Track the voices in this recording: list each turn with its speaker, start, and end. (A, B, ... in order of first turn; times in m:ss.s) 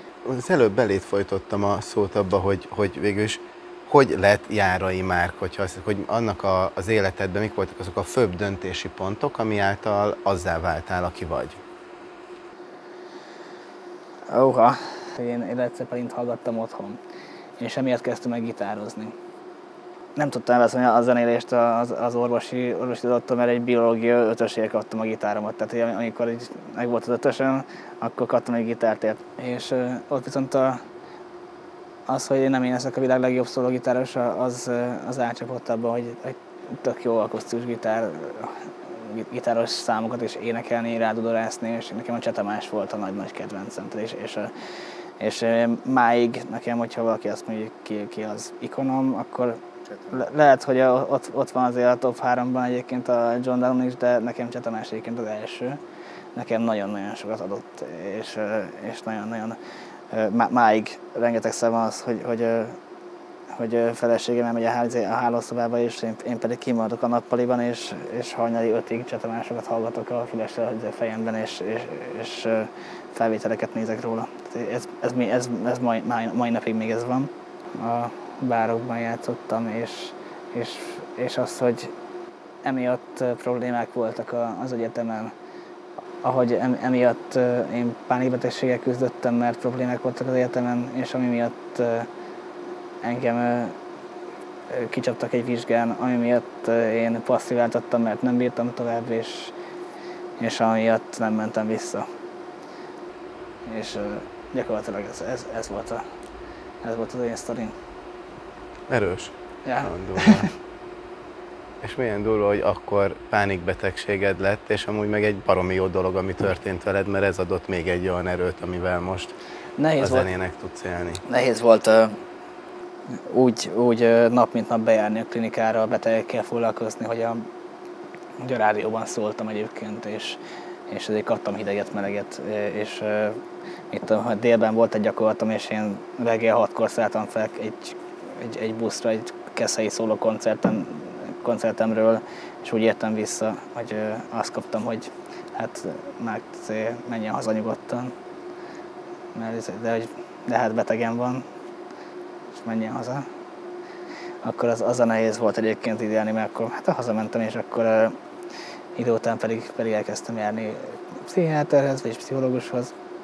0:00.2-0:11.6 A
0:14.3-0:17.0 B
0:17.6-0:19.1 B
0:20.2-0:30.8 B
0:32.1-0:44.5 B
0:45.2-0:55.8 B
0:56.3-0:59.6 B
1:00.1-1:02.8 B
1:03.5-1:21.9 B
1:22.6-1:25.3 B
1:26.2-1:32.1 B
1:33.0-1:33.8 B
1:34.7-1:39.5 B
1:40.4-1:42.0 B
1:43.7-1:46.0 B
1:46.8-1:47.7 B
1:48.9-1:50.5 A
1:49.6-1:50.5 B
1:51.8-1:59.3 A
1:59.8-2:00.3 B
2:00.0-2:01.2 A
2:01.2-2:02.2 B
2:03.3-2:07.4 B
2:08.4-2:13.4 B
2:13.9-2:28.1 B
2:29.3-2:31.4 B
2:32.5-2:33.2 B
2:34.4-2:38.1 B
2:39.0-2:42.9 B